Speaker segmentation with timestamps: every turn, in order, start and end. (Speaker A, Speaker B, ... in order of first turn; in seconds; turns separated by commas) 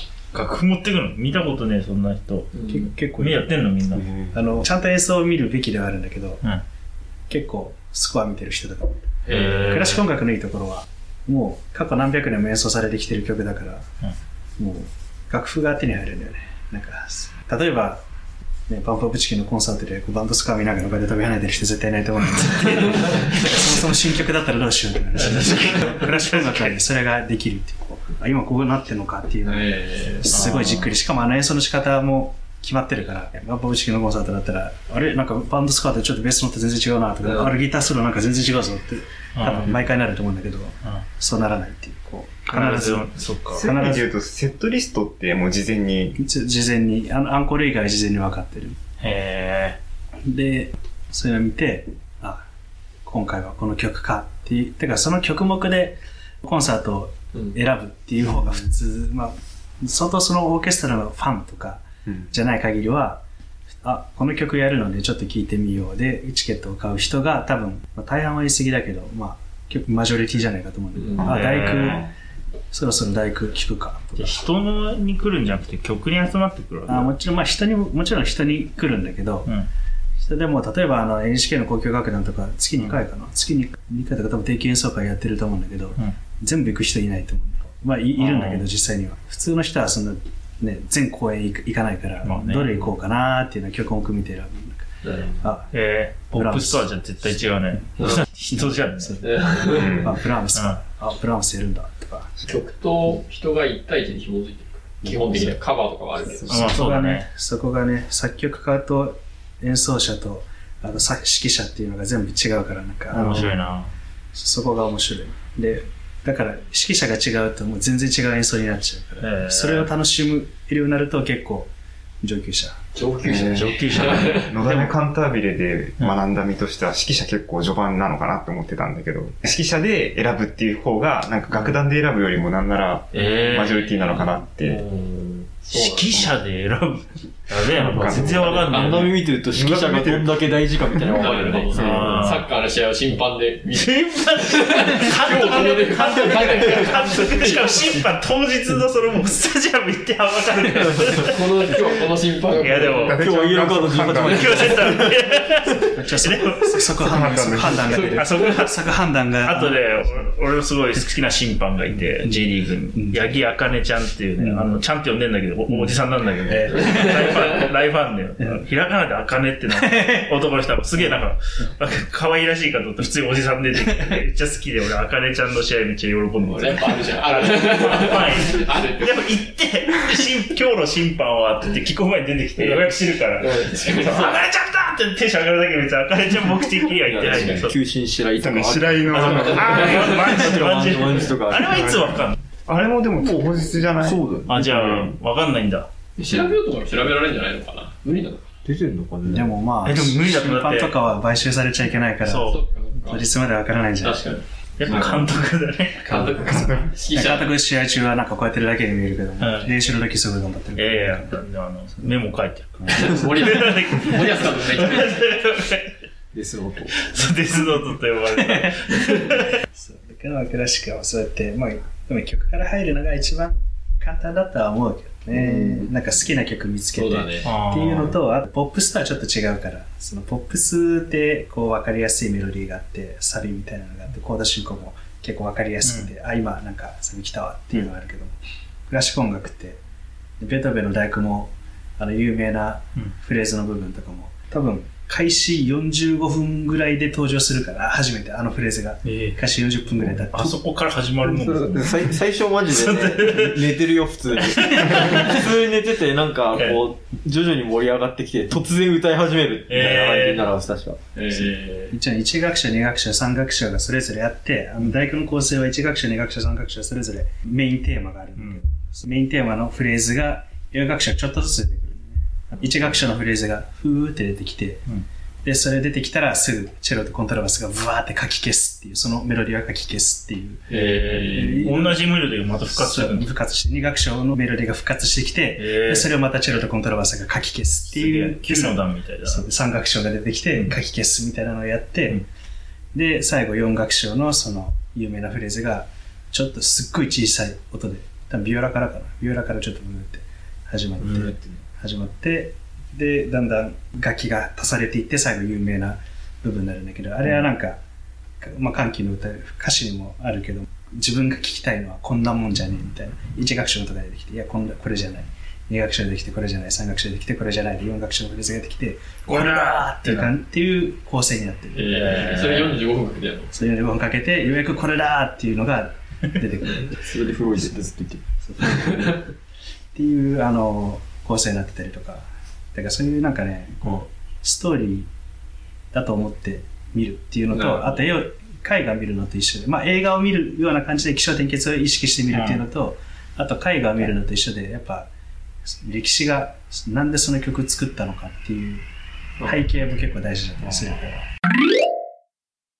Speaker A: 0.3-2.5, Speaker B: 2.5-2.9, Speaker C: 2.7-3.7, Speaker A: 3.2-4.1, Speaker C: 4.3-6.4, Speaker C: 7.3-13.8, Speaker B: 9.3-9.6, Speaker A: 9.3-10.0, Speaker C: 14.6-18.0, Speaker C: 18.7-44.1, Speaker A: 25.2-26.8, Speaker B: 29.4-30.4, Speaker A: 30.3-30.9, Speaker B: 37.3-37.5, Speaker A: 39.4-39.8, Speaker A: 42.5-43.6, Speaker D: 43.5-46.2, Speaker C: 46.2-48.8, Speaker A: 49.0-49.8, Speaker C: 50.3-52.5, Speaker C: 53.1-63.2, Speaker C: 63.8-72.0, Speaker B: 71.0-71.4, Speaker A: 71.2-72.0, Speaker D: 71.8-72.1, Speaker C: 72.7-74.5, Speaker A: 74.2-77.1, Speaker C: 76.9-79.5, Speaker C: 80.2-95.7, Speaker A: 88.2-88.7, Speaker A: 92.2-92.9, Speaker B: 95.0-95.3, Speaker A: 95.7-99.2, Speaker C: 96.3-97.0, Speaker B: 98.0-98.2, Speaker C: 98.0-102.6, Speaker B: 99.2-100.1, Speaker D: 99.7-100.1, Speaker A: 100.5-100.8, Speaker B: 102.5-106.7, Speaker C: 105.0-105.6, Speaker D: 106.4-106.7, Speaker A: 106.5-107.3, Speaker C: 106.5-113.6, Speaker A: 113.1-113.9, Speaker C: 114.3-121.7, Speaker A: 119.2-119.9, Speaker C: 122.2-122.8, Speaker B: 123.0-124.6, Speaker D: 123.2-134.8, Speaker A: 123.6-124.8, Speaker A: 133.1-134.3, Speaker E: 135.0-135.3, Speaker B: 135.6-136.1, Speaker A: 135.7-139.2, Speaker D: 136.1-136.4, Speaker D: 137.8-138.8, Speaker E: 137.8-142.2, Speaker B: 138.4-139.1, Speaker D: 139.6-141.1, Speaker B: 141.1-148.0, Speaker A: 141.5-142.5, Speaker A: 143.7-151.4, Speaker E: 146.0-147.3, Speaker B: 151.1-153.2, Speaker D: 152.5-155.0, Speaker A: 152.6-153.2, Speaker E: 153.2-155.3, Speaker A: 154.3-158.8, Speaker C: 155.7-160.0, Speaker D: 157.1-158.1, Speaker B: 158.0-158.6, Speaker A: 159.4-187.8, Speaker C: 163.0-163.3, Speaker C: 166.4-167.1, Speaker C: 169.9-170.2, Speaker B: 176.4-179.3, Speaker B: 183.4-184.4, Speaker E: 187.0-191.9, Speaker B: 187.3-187.6, Speaker D: 188.4-190.2, Speaker A: 189.1-192.4, Speaker B: 189.6-190.1, Speaker D: 191.7-195.2, Speaker E: 193.2-194.6, Speaker A: 194.5-195.9, Speaker B: 196.2-198.4, Speaker E: 198.7-199.6, Speaker C: 199.3-202.6, Speaker A: 199.8-201.0, Speaker A: 202.2-202.6, Speaker B: 202.5-203.3, Speaker C: 203.1-204.4, Speaker B: 204.0-204.4, Speaker A: 204.8-206.2, Speaker E: 204.9-205.3, Speaker B: 206.1-207.5, Speaker C: 206.1-206.3, Speaker D: 206.4-206.9, Speaker C: 207.1-211.4, Speaker A: 209.4-209.8, Speaker A: 210.8-215.9, Speaker C: 212.8-213.2, Speaker B: 212.9-215.2, Speaker E: 216.3-217.1, Speaker A: 216.9-219.6, Speaker C: 219.7-238.4, Speaker B: 226.9-227.5, Speaker A: 227.4-228.2, Speaker A: 235.8-236.1, Speaker C: 238.9-239.8, Speaker C: 240.4-250.6, Speaker A: 249.1-249.4, Speaker A: 250.2-253.8, Speaker E: 251.2-261.5, Speaker A: 254.4-255.4, Speaker A: 256.5-256.8, Speaker A: 259.7-260.5, Speaker B: 261.2-261.9, Speaker C: 261.9-274.8, Speaker C: 275.4-280.7, Speaker B: 280.7-281.7, Speaker A: 280.7-283.3, Speaker C: 281.3-292.2, Speaker A: 285.6-286.1, Speaker A: 287.9-289.4, Speaker C: 292.9-307.8, Speaker C: 308.4-321.9, Speaker A: 319.3-320.3, Speaker B: 321.8-323.5, Speaker A: 321.9-322.8, Speaker C: 323.5-327.1, Speaker E: 326.9-328.4, Speaker C: 328.5-329.2, Speaker B: 328.7-329.2, Speaker C: 329.9-335.1, Speaker C: 335.9-345.1, Speaker B: 337.5-338.1, Speaker A: 342.3-342.7, Speaker C: 345.8-348.8, Speaker C: 349.4-351.1, Speaker A: 350.6-351.1